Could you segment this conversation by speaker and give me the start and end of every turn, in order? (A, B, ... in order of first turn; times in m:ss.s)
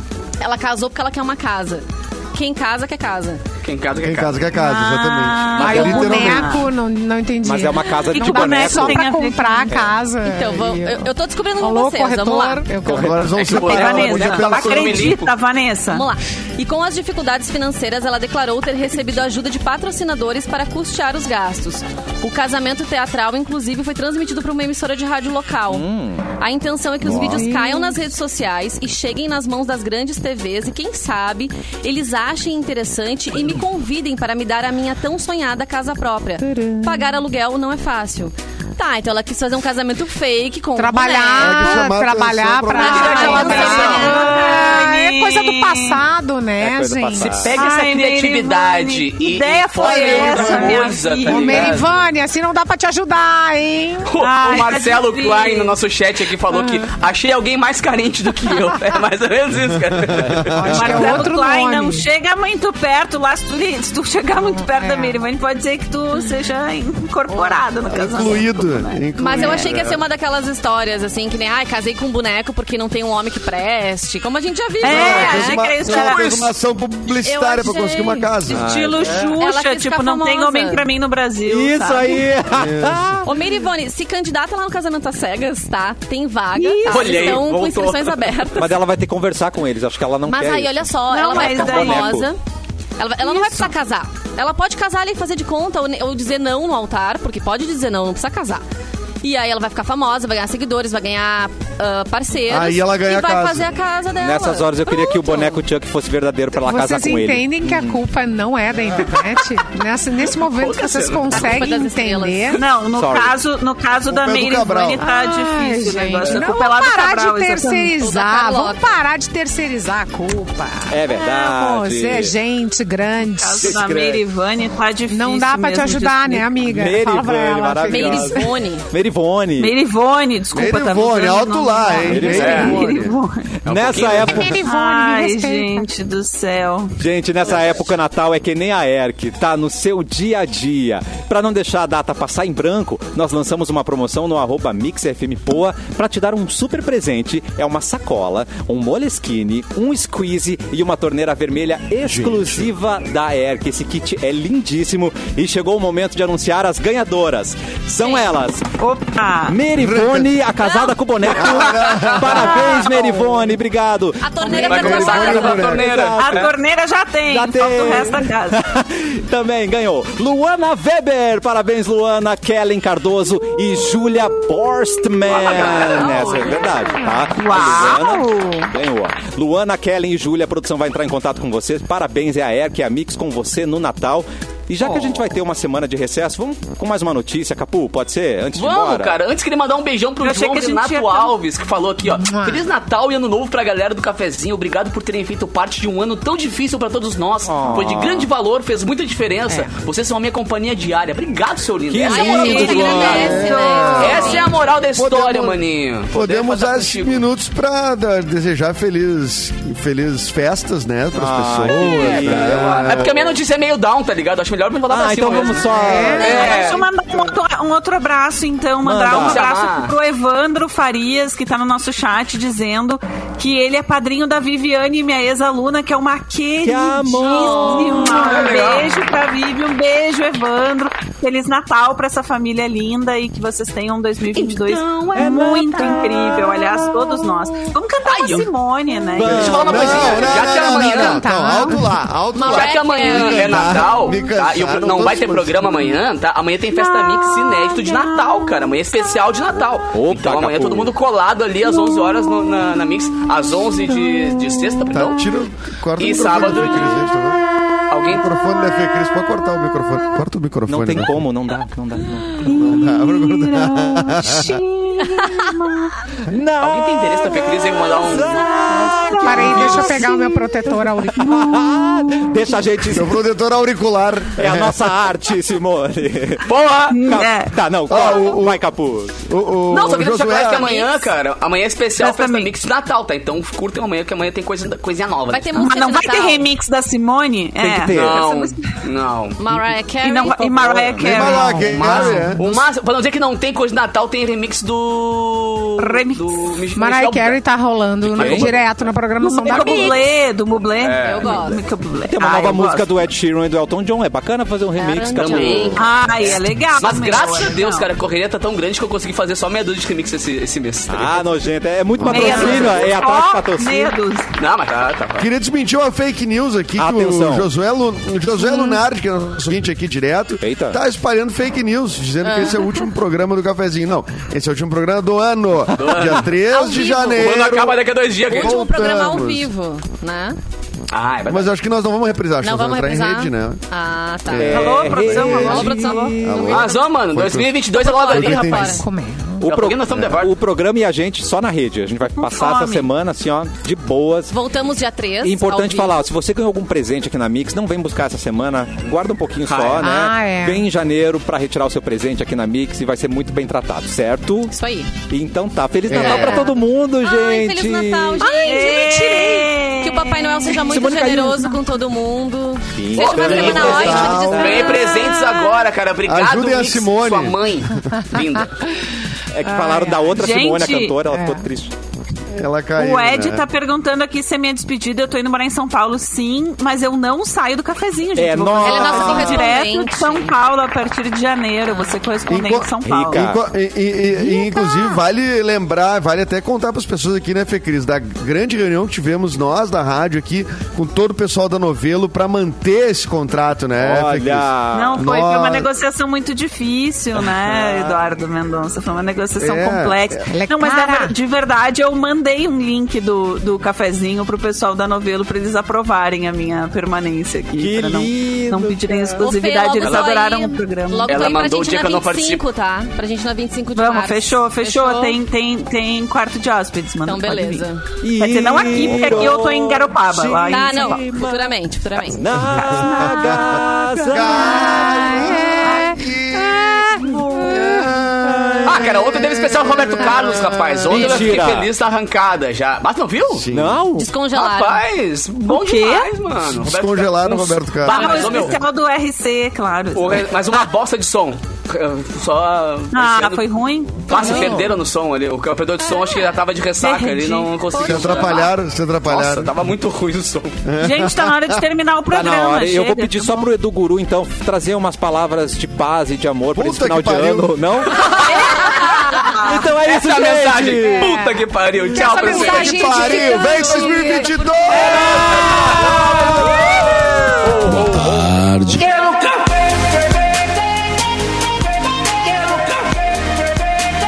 0:00.4-0:03.4 A
0:03.6-0:04.5 B
0:04.0-0:06.7 C
0:04.6-0:06.7 D
0:05.6-0:13.3 E
0:05.6-0:06.4 F
0:07.4-0:09.1 F
0:08.1-0:09.8 D
0:10.2-0:12.8 A
0:12.8-0:13.6 F
0:12.9-0:15.2 C
0:13.4-0:15.3 B
0:13.5-0:16.1 D
0:15.9-0:41.9 A
0:25.7-0:26.3 F
0:27.0-0:27.5 F
0:27.2-0:28.0 E
0:36.4-0:37.2 E
0:40.8-0:47.4 E
0:41.4-0:43.7 C
0:42.7-0:44.8 A
0:42.8-0:44.2 B
0:43.1-0:46.0 D
0:46.6-0:47.6 F
0:47.2-0:51.9 B
0:47.5-0:51.8 D
0:49.8-0:50.9 C
0:49.8-0:54.1 E
0:54.1-1:00.6 B
0:54.2-0:55.7 D
0:56.6-0:56.8 E
0:59.9-1:01.3 C
1:00.5-1:02.1 E
1:00.7-1:09.6 D
1:04.4-1:05.2 E
1:07.3-1:08.3 A
1:07.9-1:10.0 C
1:09.2-1:16.3 A
1:14.8-1:16.5 D
1:14.8-1:19.4 C
1:17.2-1:18.4 A
1:18.5-1:22.2 D
1:18.5-1:19.4 F
1:19.4-1:20.9 A
1:21.4-1:23.3 F
1:22.5-1:23.2 C
1:23.2-1:28.7 A
1:26.6-1:27.4 D
1:26.8-1:28.4 B
1:28.6-1:32.3 F
1:30.3-1:32.4 A
1:31.1-1:32.2 D
1:33.0-1:38.6 A
1:33.3-1:33.6 D
1:39.2-1:45.6 A
1:42.5-1:43.7 C
1:44.2-1:48.0 F
1:46.6-1:52.6 E
1:50.4-1:51.6 B
1:51.3-1:52.6 A
1:52.6-1:58.0 D
1:53.0-1:53.4 F
1:54.1-1:55.0 C
1:55.0-2:03.8 E
1:58.0-1:59.0 A
2:00.9-2:02.4 F
2:03.2-2:06.6 D
2:03.6-2:04.2 F
2:05.1-2:08.4 E
2:06.6-2:09.7 F
2:07.9-2:08.9 A
2:09.6-2:13.5 D
2:10.5-2:13.2 C
2:12.1-2:12.7 F
2:12.2-2:12.6 E
2:12.2-2:12.8 B
2:13.6-2:14.7 F
2:13.7-2:14.4 B
2:14.3-2:15.9 E
2:14.7-2:17.0 D
2:17.0-2:38.7 F
2:32.0-2:32.7 C
2:38.0-2:38.3 A
2:38.8-2:39.6 D
2:39.5-2:46.5 F
2:39.8-2:40.3 C
2:40.6-2:41.0 A
2:41.3-2:42.7 C
2:41.4-2:42.9 B
2:44.2-2:45.8 A
2:44.5-2:46.5 B
2:44.6-2:46.1 C
2:46.2-2:48.6 D
2:47.3-3:09.2 F
2:55.3-2:56.6 B
2:55.8-2:57.1 A
2:57.4-2:58.7 D
2:57.5-2:57.9 B
3:08.6-3:27.3 B
3:10.2-3:11.3 D
3:12.0-3:12.6 E
3:17.4-3:18.3 F
3:21.9-3:23.4 F
3:22.0-3:24.5 A
3:22.1-3:24.4 D
3:23.4-3:24.3 C
3:24.9-3:25.6 C
3:26.1-3:33.1 C
3:31.1-3:33.2 F
3:31.7-3:36.8 B
3:34.9-3:36.6 F
3:35.7-3:36.5 E
3:36.1-4:00.3 D
3:36.4-3:36.7 A
3:38.8-3:39.4 F
3:39.1-3:39.9 B
3:46.6-3:48.0 F
3:47.3-3:48.3 A
3:47.8-3:49.1 B
3:54.2-3:56.0 B
3:55.1-3:56.9 F
3:58.0-3:58.5 B
3:59.1-4:00.2 F
3:59.2-4:06.0 C
3:59.3-4:01.2 B
4:00.5-4:01.9 E
4:02.3-4:03.7 A
4:02.4-4:15.3 B
4:07.7-4:08.2 D
4:09.9-4:10.9 F
4:14.9-4:17.4 C
4:16.0-4:17.1 B
4:17.9-4:18.3 B
4:18.0-4:21.1 C
4:20.7-4:22.6 F
4:22.4-4:26.0 D
4:22.5-4:24.6 C
4:25.2-4:25.5 A
4:26.2-4:30.3 F
4:26.6-4:28.6 B
4:28.4-4:30.1 D
4:29.2-4:31.7 E
4:31.1-4:33.2 F
4:32.9-4:35.0 C
4:34.4-4:39.2 F
4:36.4-4:37.1 B
4:36.9-4:37.6 D
4:37.9-4:38.6 C
4:37.9-4:38.2 B
4:39.2-4:40.8 C
4:39.7-4:45.6 B
4:40.7-4:41.0 A
4:42.0-4:42.5 D
4:45.3-4:46.5 A
4:45.6-4:48.0 D
4:47.6-4:48.3 F
4:47.9-4:49.4 B
4:48.1-4:48.8 A
4:49.4-4:50.5 A
4:50.0-4:52.0 D
4:50.4-4:51.5 F
4:51.0-4:52.6 C
4:51.6-4:57.4 B
4:51.6-4:52.4 E
4:55.8-4:56.5 D
4:56.8-5:00.0 E
4:58.0-4:58.5 F
4:58.1-4:58.7 B
4:59.2-5:02.9 D
4:59.5-4:59.8 B
5:00.8-5:01.4 B
5:01.0-5:01.6 A
5:02.1-5:05.8 F
5:04.7-5:06.2 A
5:05.1-5:11.3 B
5:05.8-5:07.9 D
5:10.9-5:14.0 F
5:12.0-5:12.4 C
5:12.0-5:12.9 B
5:12.1-5:14.3 D
5:14.4-5:15.3 B
5:15.2-5:29.5 C
5:16.8-5:17.5 F
5:20.4-5:20.8 F
5:22.3-5:22.9 A
5:25.7-5:26.3 B
5:26.4-5:27.3 A
5:27.0-5:28.6 B
5:28.3-5:30.4 A
5:30.9-5:31.5 B
5:31.3-5:33.6 C
5:32.4-5:36.9 A
5:34.3-5:38.7 C
5:34.4-5:36.1 F
5:34.5-5:36.1 D
5:36.4-5:38.8 B
5:37.7-5:38.8 A
5:38.7-5:39.5 E
5:39.4-5:44.3 F
5:39.4-5:40.4 B
5:42.2-5:42.9 D
5:44.3-5:46.1 A
5:45.2-5:58.3 F
5:49.4-5:49.9 B
5:49.8-5:50.6 E
5:54.5-5:55.0 A
5:55.9-5:56.5 C
5:56.0-6:05.6 A
5:58.2-6:00.6 D
5:58.5-5:59.5 E
6:00.6-6:01.5 F
6:02.7-6:04.7 F
6:03.0-6:08.7 B
6:03.2-6:04.6 C
6:06.1-6:07.4 C
6:09.3-6:11.7 F
6:09.4-6:10.2 E
6:10.1-6:11.0 D
6:11.1-6:11.4 E
6:12.3-6:13.4 C
6:12.8-6:23.3 D
6:18.2-6:19.6 F
6:18.6-6:20.3 A
6:22.3-6:35.7 C
6:22.8-6:23.4 F
6:33.8-6:35.1 F
6:34.7-6:51.4 D
6:37.2-6:38.0 F
6:39.4-6:40.2 C
6:40.3-6:41.1 E
6:47.6-6:49.2 F
6:49.2-6:55.2 A
6:49.8-6:50.1 B
6:51.1-6:52.4 B
6:53.7-7:01.3 D
6:57.0-6:58.0 A
6:58.0-7:01.5 F
6:58.8-6:59.4 C
7:00.4-7:02.7 A
7:02.1-7:10.0 F
7:02.5-7:09.1 C
7:02.6-7:03.4 D
7:04.4-7:06.0 E
7:08.6-7:13.5 B
7:10.1-7:10.8 C
7:10.9-7:11.7 F
7:10.9-7:11.4 A
7:13.4-7:13.8 C
7:13.5-7:14.1 F
7:14.0-7:14.8 A
7:14.3-7:18.6 B
7:15.5-7:16.1 D
7:16.5-7:18.5 C
7:17.8-7:20.3 D
7:20.0-7:28.5 B
7:22.9-7:24.7 D
7:24.1-7:24.7 A
7:26.8-7:27.5 D
7:27.7-7:28.5 A
7:27.7-7:29.5 C
7:29.1-7:30.6 B
7:30.6-7:31.7 C
7:30.8-7:33.5 D
7:32.1-7:41.2 F
7:36.5-7:37.7 C
7:38.2-7:39.3 A
7:38.6-7:43.0 B
7:39.4-7:39.6 D
7:40.8-7:44.3 E
7:42.3-7:45.4 C
7:42.3-7:43.7 A
7:44.7-7:49.5 B
7:44.9-7:47.4 F
7:52.3-7:52.9 B